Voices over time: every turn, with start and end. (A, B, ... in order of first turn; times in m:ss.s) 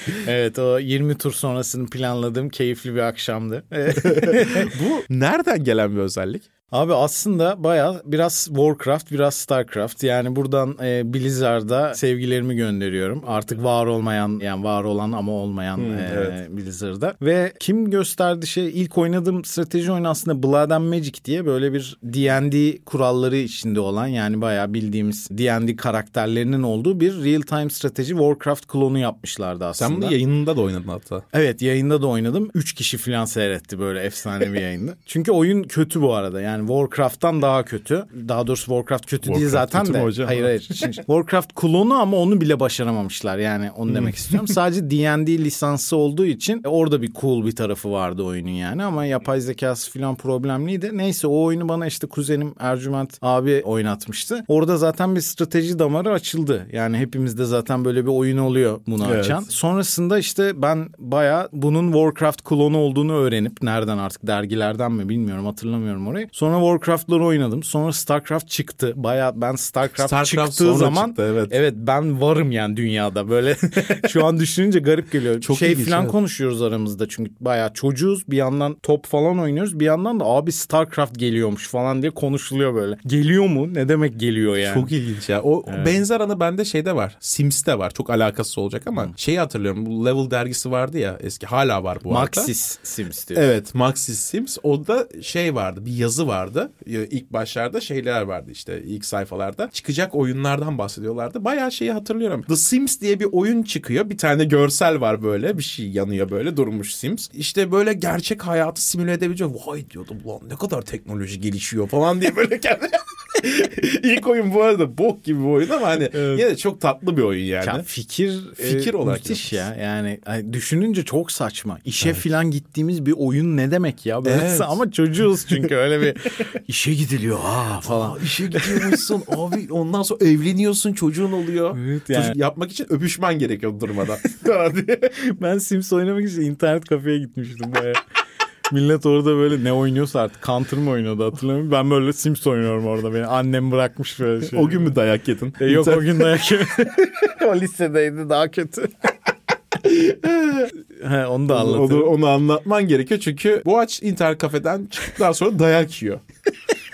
0:00.1-0:04.7 A
0:04.0-0:06.4 B
0:06.7-0:30.1 A
0:15.8-0:16.4 B
0:29.8-0:31.2 B
0:31.3-1:24.9 A
0:39.2-0:40.9 B
0:43.9-0:44.4 B
0:59.0-0:59.4 B
1:10.0-1:11.5 B
1:15.4-1:16.1 B
1:24.6-1:32.5 B
1:25.7-1:26.0 A
1:32.1-1:33.4 A
1:33.3-1:57.8 B
1:56.1-1:56.4 A
1:57.6-2:09.0 A
1:58.6-1:59.6 B
2:04.2-2:04.8 B
2:07.8-2:15.1 B
2:11.7-2:12.4 A
2:15.2-2:18.0 A
2:18.7-2:24.8 A
2:24.5-2:26.4 B
2:25.6-2:29.1 A
2:29.8-2:30.7 B
2:30.9-2:32.1 A
2:31.5-2:36.2 B